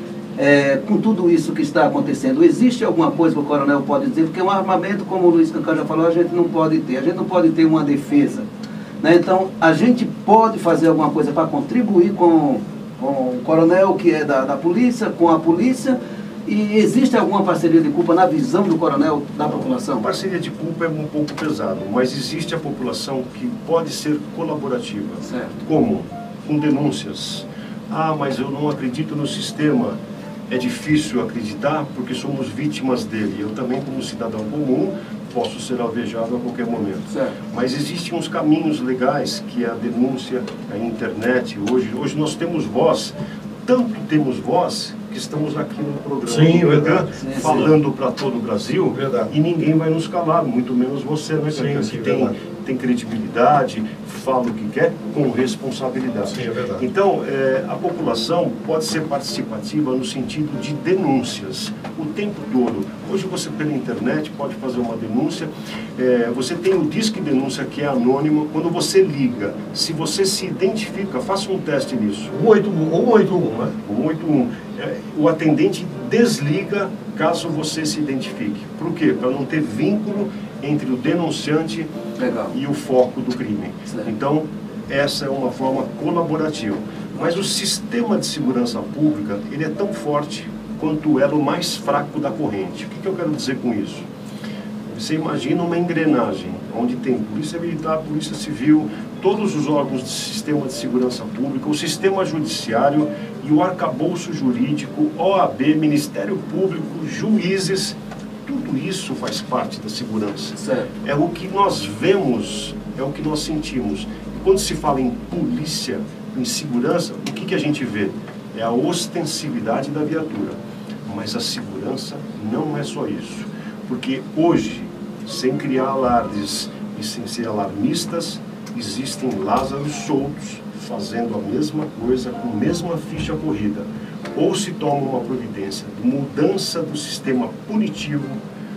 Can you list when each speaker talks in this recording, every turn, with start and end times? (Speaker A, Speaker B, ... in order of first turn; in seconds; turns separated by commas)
Speaker A: 0.3-8.5, Speaker A: 9.0-20.0, Speaker B: 19.9-72.3, Speaker A: 25.2-25.5, Speaker A: 37.1-37.3, Speaker C: 46.2-47.7, Speaker A: 47.2-47.6, Speaker C: 48.9-49.3, Speaker C: 51.5-52.4, Speaker C: 56.2-56.8, Speaker C: 72.3-73.8, Speaker B: 73.8-81.9, Speaker A: 82.2-82.5, Speaker B: 82.5-94.1, Speaker B: 94.9-138.4, Speaker A: 110.6-110.9